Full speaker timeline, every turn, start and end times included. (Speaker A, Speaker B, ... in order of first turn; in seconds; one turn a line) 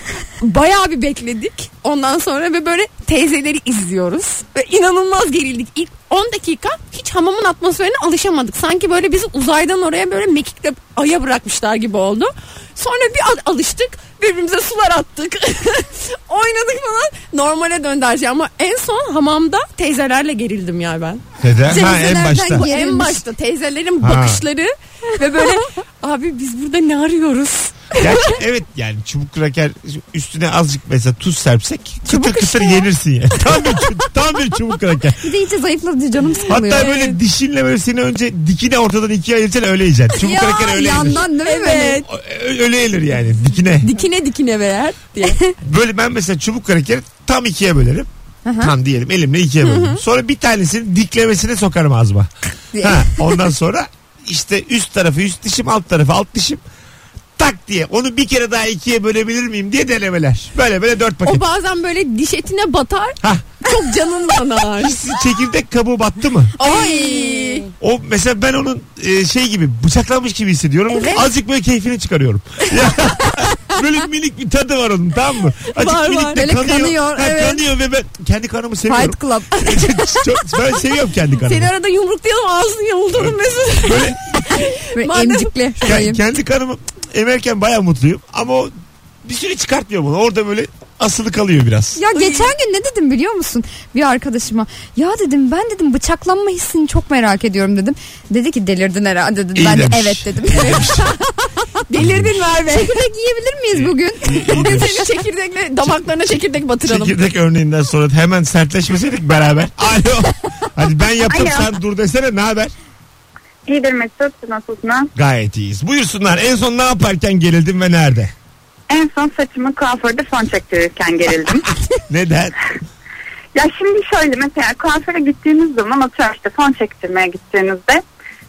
Speaker A: 0.4-28.2
Speaker B: 21.4-22.6
Speaker C: 21.7-23.2
Speaker B: 24.0-24.4
Speaker B: 28.0-35.2
Speaker C: 32.1-32.7
Speaker C: 35.2-37.1
Speaker B: 36.5-41.2
Speaker A: 36.8-37.1
Speaker C: 40.2-42.0
Speaker A: 41.2-42.0
Speaker B: 42.0-43.9
Speaker A: 43.8-45.4
Speaker B: 45.6-48.1
Speaker C: 48.5-48.7
Speaker B: 48.6-56.6
Speaker A: 49.6-50.0
Speaker C: 52.7-53.1
Speaker B: 57.4-61.4
Speaker A: 61.2-65.0
Speaker B: 64.8-66.5
Speaker A: 66.6-67.7
Speaker C: 66.6-67.7
Speaker B: 67.8-81.7
Speaker C: 70.9-71.2
Speaker A: 75.7-76.4
Speaker C: 76.3-77.6
Speaker C: 78.9-80.0
Speaker A: 81.4-85.5
Speaker B: 83.8-84.2
Speaker C: 84.9-86.2
Speaker B: 85.8-88.7
Speaker B: 89.2-92.0
Speaker C: 92.0-100.8
Speaker A: 92.1-92.5
Speaker B: 99.5-101.1
Speaker A: 100.5-101.1
Speaker A: 101.9-103.0
Speaker B: 102.0-102.4
Speaker C: 102.7-104.9
Speaker B: 103.7-105.1
Speaker A: 104.4-107.2
Speaker B: 106.8-112.7
Speaker D: 111.3-111.6
Speaker D: 113.7-115.1
Speaker B: 115.2-118.3
Speaker D: 118.9-121.7
Speaker B: 122.1-122.5
Speaker D: 123.5-128.0